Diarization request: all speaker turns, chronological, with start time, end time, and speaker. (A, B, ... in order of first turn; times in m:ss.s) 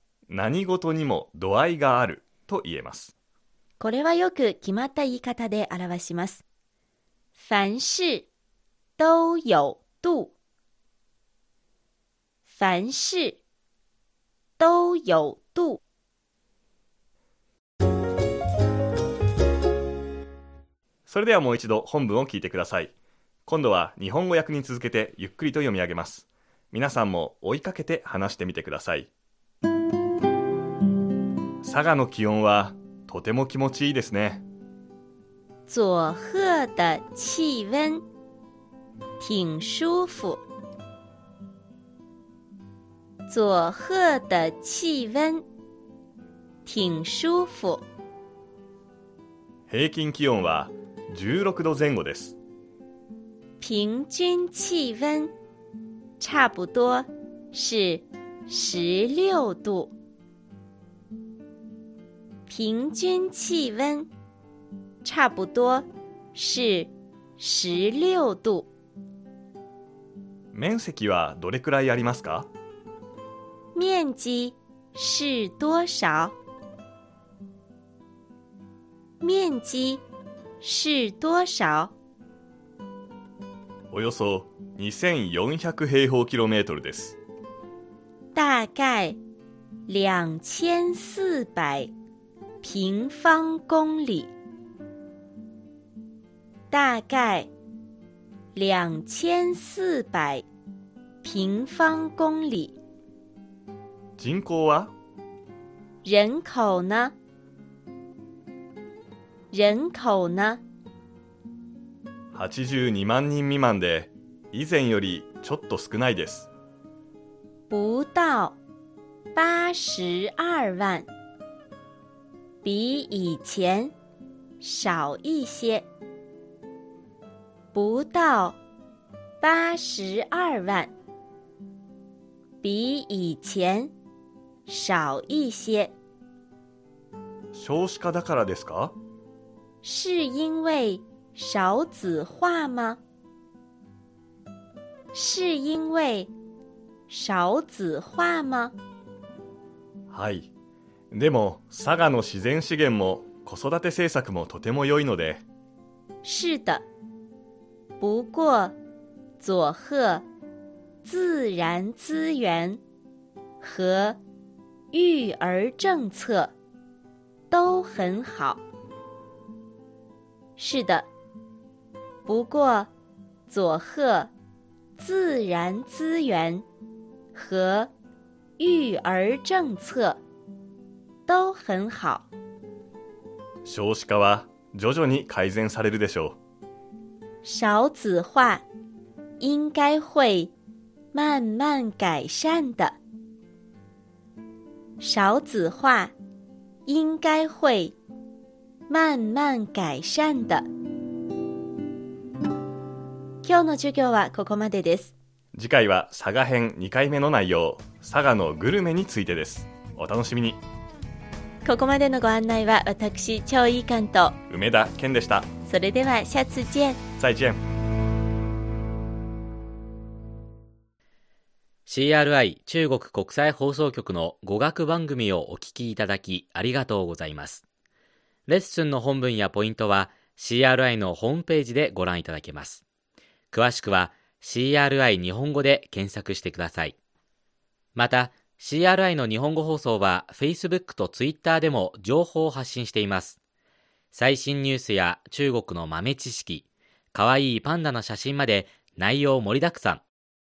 0:00.3-0:03.1 A
0:03.8-0:06.4 B
0:07.4-0:08.3 B
0:09.0-0:10.3 B
0:12.5-0:13.4 B
0:14.6-0:15.8 B
0:21.1-0:22.9 A
0:23.5-0:29.1 A
0:31.6-0:34.4 A
0:35.7-0:38.0 B
0:39.2-0:40.4 B
0:43.3-0:45.4 B
0:46.6-0:47.8 B
0:49.7-0:52.4 A
0:53.6-0:55.3 B
0:56.2-0:59.9 B
1:02.5-1:04.1 B
1:05.0-1:08.7 B
1:10.5-1:12.5 A
1:13.8-1:16.4 B
1:19.2-1:20.0 B
1:20.6-1:21.9 B
1:23.9-1:27.2 A
1:28.3-1:29.2 B
1:29.9-1:31.9 B
1:32.6-1:34.3 B
1:36.7-1:37.5 B
1:38.5-1:40.4 B
1:41.2-1:42.8 B
1:44.2-1:44.9 A
1:46.0-1:47.2 B
1:49.5-1:50.6 B
1:52.3-1:56.5 A
1:57.7-1:58.6 B
1:59.4-2:01.1 B
2:02.6-2:03.9 B
2:04.6-2:05.9 B
2:07.7-2:08.6 B
2:09.4-2:10.9 B
2:12.6-2:13.9 B
2:14.7-2:15.9 B
2:17.5-2:19.0 A
2:19.8-2:23.0 B
2:25.1-2:26.3 B
2:27.1-2:28.8 B
2:30.1-2:30.5 A
2:31.1-2:35.4 A
2:36.2-2:36.8 B
2:38.0-2:38.8 B
2:39.4-2:40.2 B
2:41.0-2:42.8 B
2:43.6-2:44.2 B
2:44.9-2:46.5 B
2:47.5-2:48.6 B
2:50.6-2:51.1 B
2:52.3-2:52.9 B
2:53.5-2:54.3 B
2:55.0-2:56.6 B
2:57.3-2:57.9 B
2:58.6-3:00.2 B
3:01.3-3:02.3 B
3:03.6-3:06.4 A
3:07.4-3:08.6 B
3:09.4-3:10.5 B
3:11.1-3:13.0 B
3:15.0-3:16.1 B
3:16.9-3:18.0 B
3:18.9-3:20.7 B
3:23.4-3:25.1 B
3:25.5-3:30.6 A
3:31.6-3:34.4 B
3:34.5-3:35.5 A
3:35.7-3:37.0 B
3:37.2-3:37.6 A
3:41.9-3:47.6 C
3:48.5-3:52.8 C
3:53.5-3:57.0 C
3:58.0-4:03.4 C
4:04.1-4:10.0 C